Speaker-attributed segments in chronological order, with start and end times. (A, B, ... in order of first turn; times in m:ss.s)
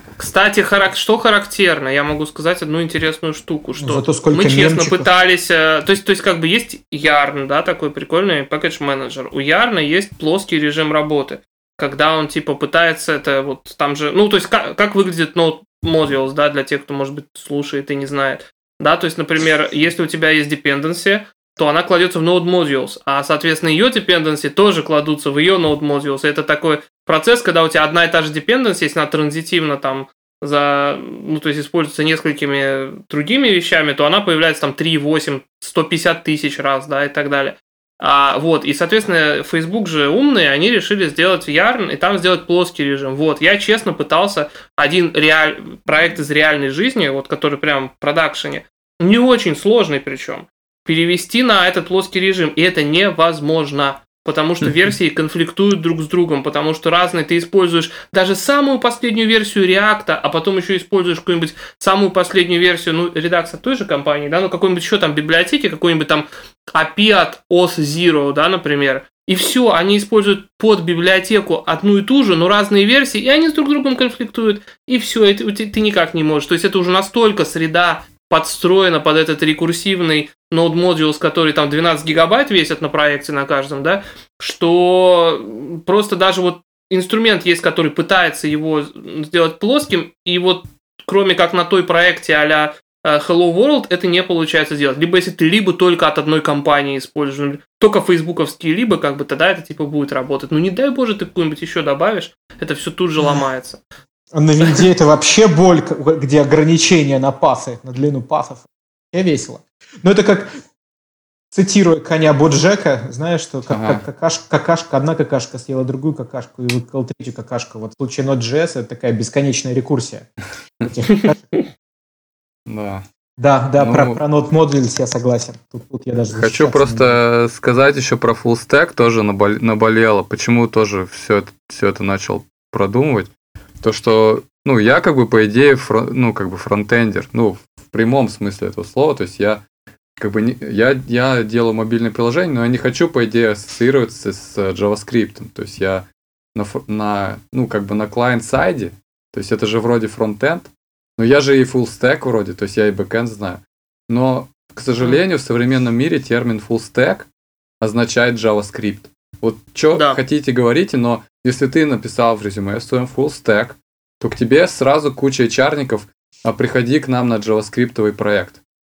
0:00.2-1:43.8 A
0:03.8-0:05.1 B
1:44.3-1:50.6 B
1:51.5-2:00.3 B
1:53.7-1:54.0 C
2:00.8-2:01.5 B
2:02.7-2:03.0 C
2:03.4-2:07.2 B
2:03.8-2:04.2 C
2:06.3-2:13.3 C
2:13.8-2:19.6 C
2:20.2-2:37.3 C
2:37.8-2:48.6 C
2:39.9-2:40.2 A